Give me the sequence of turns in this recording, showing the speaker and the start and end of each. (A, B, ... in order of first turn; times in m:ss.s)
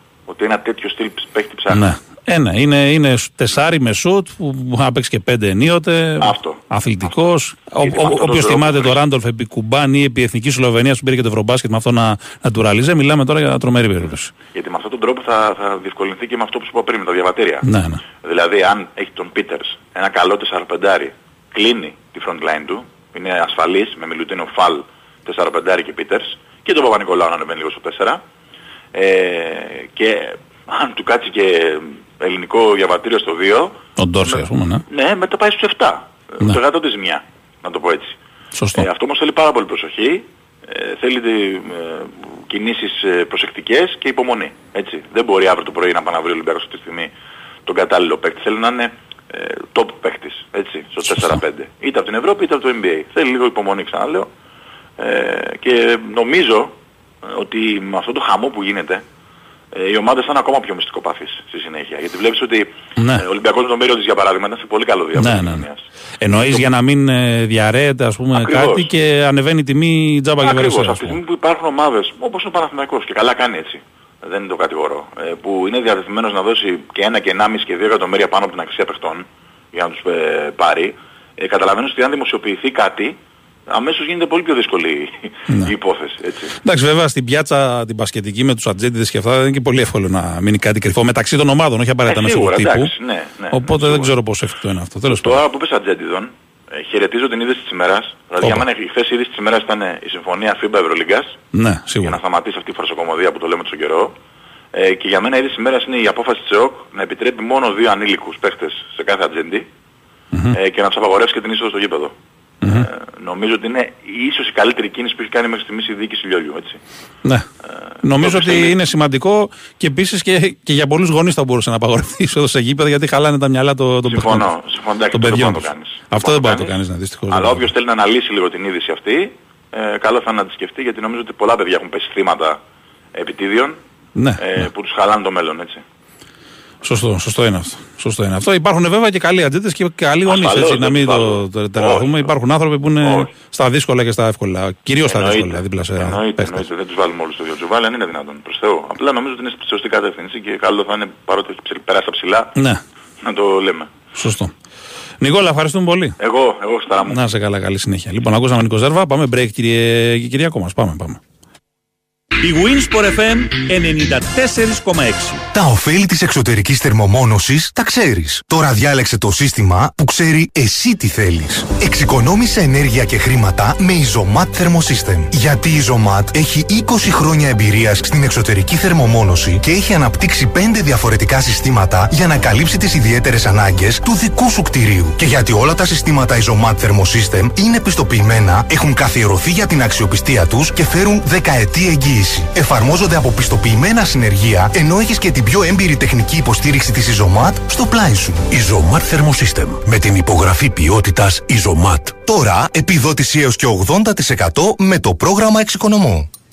0:00.3-0:01.8 A
0:01.7-0:14.3 B
0:06.2-0:07.2 A
0:07.8-0:09.0 A
0:14.5-0:28.2 A
0:17.6-0:18.0 B
0:28.9-0:38.2 A
0:34.0-0:34.8 B
0:38.5-0:38.9 B
0:38.7-0:47.1 A
0:47.6-0:54.3 A
0:55.0-0:59.0 A
0:59.7-1:05.8 A
1:03.0-1:03.2 B
1:05.2-1:05.7 B
1:06.2-1:11.2 B
1:06.4-1:06.6 A
1:08.3-1:08.9 A
1:10.4-1:23.2 A
1:23.7-1:26.6 A
1:26.6-1:32.9 B
1:32.1-1:34.2 A
1:33.5-1:35.4 B
1:35.1-1:41.4 A
1:38.4-1:38.7 B
1:41.5-1:42.2 B
1:42.0-1:44.1 A
1:44.7-1:49.7 A
1:50.5-1:56.8 A
1:58.0-2:04.5 B
1:58.2-1:58.7 A
2:04.0-2:06.7 A
2:05.1-2:07.7 B
2:07.3-2:12.6 A
2:13.1-2:13.8 A
2:14.2-2:14.7 B
2:14.4-2:15.8 A
2:16.8-2:26.7 B
2:20.2-2:22.3 A
2:23.0-2:23.3 A
2:25.0-2:32.5 A
2:32.6-2:32.8 B
2:33.2-2:33.9 A
2:34.1-2:34.5 B
2:35.2-2:36.2 B
2:36.2-2:37.2 A
2:37.0-2:41.2 B
2:42.4-2:45.4 C
2:45.5-3:26.3 D